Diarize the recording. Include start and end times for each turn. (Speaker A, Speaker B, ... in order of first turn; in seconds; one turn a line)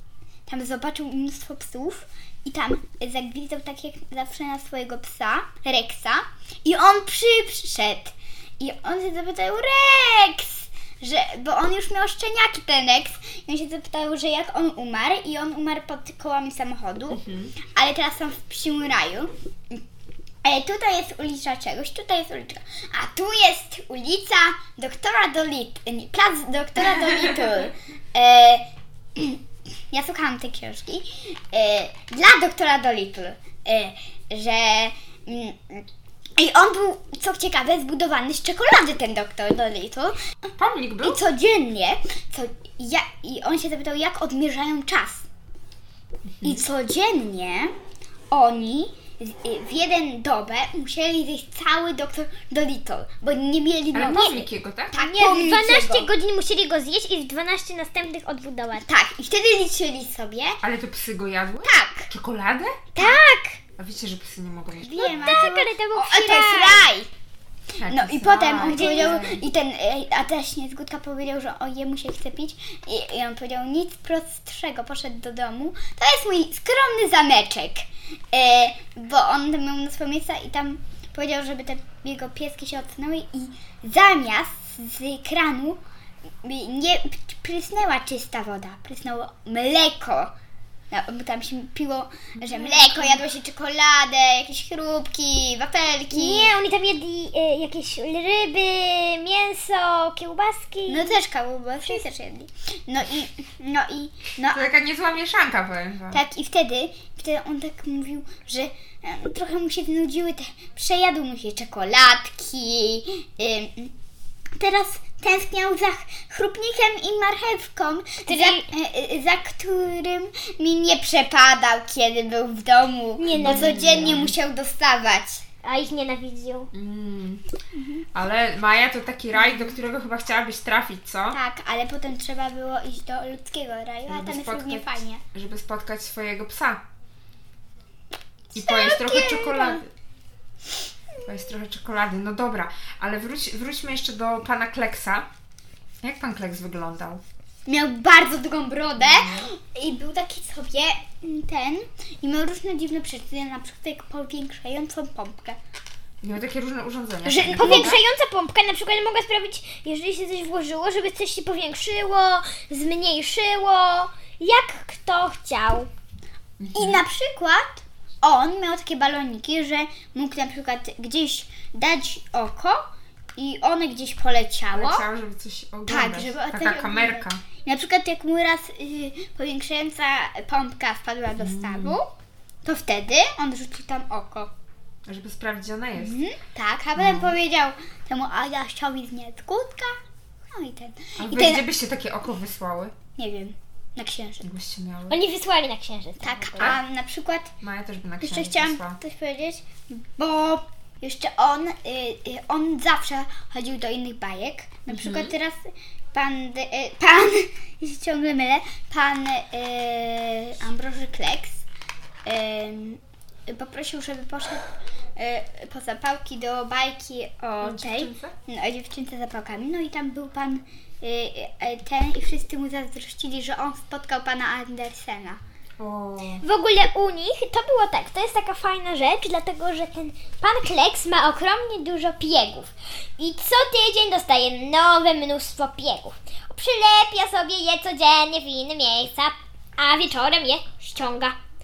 Speaker A: 0.5-17.2
Speaker B: 17.1-17.5
Speaker A: 17.7-19.8
Speaker A: 20.4-35.9
Speaker A: 36.4-40.2
Speaker B: 40.6-41.2
Speaker A: 41.0-45.3
Speaker A: 46.4-47.7
Speaker A: 48.3-56.1
Speaker B: 53.9-55.0
Speaker C: 54.0-54.4
Speaker C: 54.9-58.9
Speaker A: 58.8-60.6
Speaker B: 60.6-62.9
Speaker A: 61.6-62.1
Speaker C: 63.0-63.6
Speaker B: 63.8-65.4
Speaker A: 64.8-67.1
Speaker C: 64.9-66.9
Speaker B: 67.8-69.4
Speaker A: 67.8-85.8
Speaker C: 68.7-69.2
Speaker A: 86.4-90.3
Speaker A: 90.9-96.5
Speaker B: 92.4-92.8
Speaker C: 96.1-101.2
Speaker A: 100.9-104.7
Speaker B: 104.5-106.2
Speaker A: 106.1-113.9
Speaker A: 114.6-125.4
Speaker C: 118.3-118.7
Speaker C: 123.2-124.1
Speaker B: 123.4-124.3
Speaker C: 125.6-126.7
Speaker B: 126.7-127.4
Speaker A: 127.8-128.0
Speaker B: 128.1-131.4
Speaker A: 131.3-135.2
Speaker B: 134.1-136.8
Speaker B: 138.5-139.9
Speaker A: 138.6-139.8
Speaker B: 141.2-145.3
Speaker B: 146.0-147.2
Speaker A: 147.7-155.6
Speaker B: 149.0-149.5
Speaker B: 156.2-158.0
Speaker A: 157.3-158.0
Speaker C: 157.6-165.9
Speaker B: 166.6-167.0
Speaker A: 166.7-175.1
Speaker B: 174.7-177.4
Speaker A: 175.9-182.1
Speaker B: 181.4-182.0
Speaker A: 182.7-184.5
Speaker B: 185.1-186.2
Speaker A: 186.0-191.7
Speaker B: 187.0-187.4
Speaker B: 191.2-193.0
Speaker A: 193.2-194.5
Speaker B: 194.4-195.2
Speaker C: 195.1-196.8
Speaker A: 196.2-197.5
Speaker B: 197.6-199.0
Speaker A: 198.2-211.6
Speaker B: 204.9-205.3
Speaker A: 212.2-225.4
Speaker B: 217.6-218.3
Speaker B: 225.8-226.4
Speaker C: 226.4-241.4